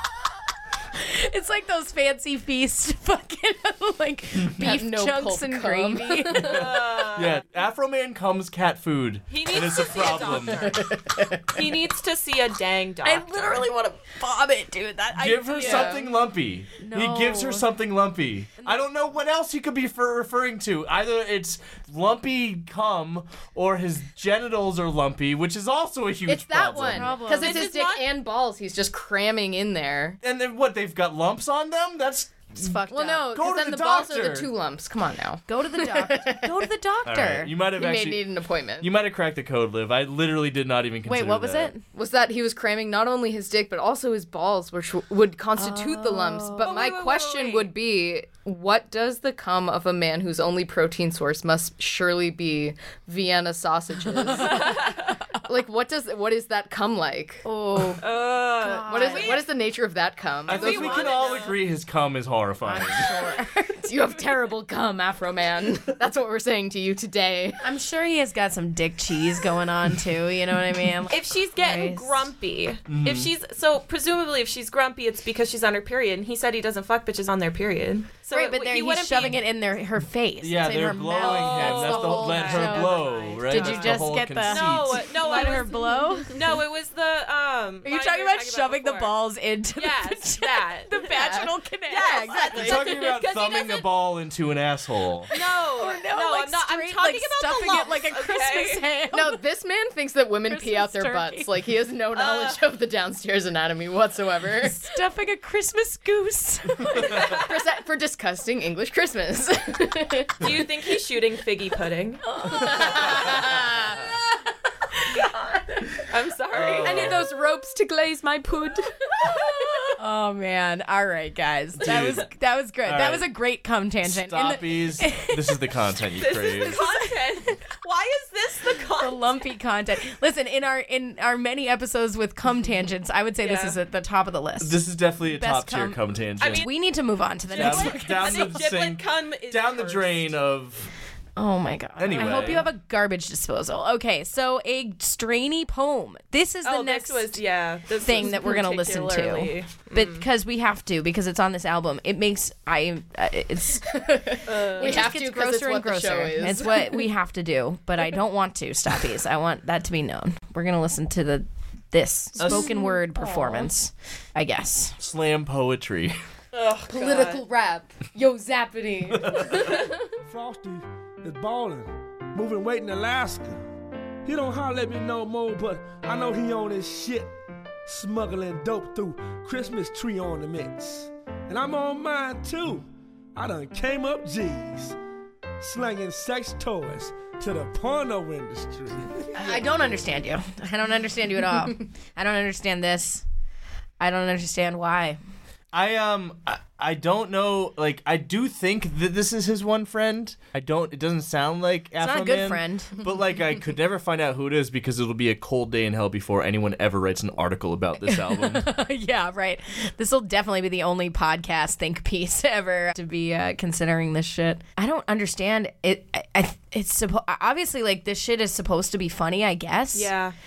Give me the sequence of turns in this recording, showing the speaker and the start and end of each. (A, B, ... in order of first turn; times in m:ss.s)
0:01.0-0:06.6 A
0:04.6-0:06.8 B
0:06.4-0:07.4 C
0:06.5-0:10.9 D
0:09.3-0:10.9 C
0:10.7-0:11.4 B
0:11.5-0:13.6 C
0:13.0-0:16.0 A
0:15.1-0:27.2 D
0:15.6-0:15.9 C
0:15.6-0:16.0 B
0:16.8-0:17.7 A
0:26.2-0:30.2 B
0:26.8-0:27.7 A
0:27.3-0:28.1 C
0:30.2-0:32.5 D
0:32.6-0:33.3 A
0:32.8-0:36.6 B
0:33.3-0:34.5 D
0:35.5-0:37.5 A
0:37.0-0:38.2 D
0:37.7-0:38.9 B
0:38.8-0:41.8 D
0:41.0-0:41.8 A
0:41.9-0:57.9 B
0:45.6-0:46.8 A
0:46.6-0:47.7 C
0:54.4-0:55.0 C
0:57.4-0:58.0 A
0:58.0-0:59.4 C
0:58.6-0:59.4 A
0:58.8-1:01.2 B
1:00.4-1:03.1 D
1:00.5-1:01.6 C
1:02.6-1:03.9 A
1:03.8-1:07.6 B
1:07.6-1:12.3 A
1:11.1-1:19.4 C
1:12.9-1:13.3 D
1:18.3-1:26.4 A
1:20.4-1:25.1 D
1:21.2-1:29.1 C
1:27.8-1:32.8 A
1:29.8-1:33.9 C
1:31.1-1:31.5 B
1:32.0-1:32.9 B
1:32.4-1:35.3 D
1:35.3-1:38.8 C
1:35.4-1:39.4 A
1:39.1-1:44.8 B
1:40.5-1:41.5 A
1:42.1-1:42.6 C
1:44.6-1:47.3 A
1:47.1-1:47.5 C
1:47.2-1:50.5 B
1:50.4-1:52.3 C
1:52.3-1:53.0 A
1:52.4-1:54.0 B
1:56.0-1:57.2 C
1:56.5-1:57.2 D
1:56.8-1:59.9 B
1:59.3-1:59.7 C
2:00.0-2:05.6 A
2:01.8-2:02.3 D
2:02.8-2:03.3 D
2:04.0-2:06.8 D
2:06.2-2:09.4 C
2:06.6-2:07.6 A
2:08.9-2:16.0 A
2:13.4-2:13.8 C
2:14.6-2:16.7 D
2:16.4-2:16.7 C
2:16.5-2:18.6 A
2:17.5-2:20.4 C
2:17.5-2:20.9 D
2:21.4-2:27.4 A
2:22.0-2:22.7 D
2:22.1-2:22.6 C
2:26.6-2:30.2 C
2:28.0-2:45.0 A
2:34.1-2:37.0 B
2:34.5-2:35.1 C
2:42.4-2:42.7 D
2:42.4-2:43.7 B
2:45.0-2:46.1 D
2:46.5-2:47.4 C
2:46.9-2:49.9 B
2:49.2-2:49.5 D
2:50.3-2:53.6 E
2:54.2-2:57.3 E
2:57.8-3:05.0 E
3:05.6-3:09.4 E
3:09.3-3:13.2 A
3:14.0-3:15.2 A
3:15.7-3:28.7 D
3:22.0-3:22.9 A
3:28.0-3:40.1 A
3:39.9-3:40.3 C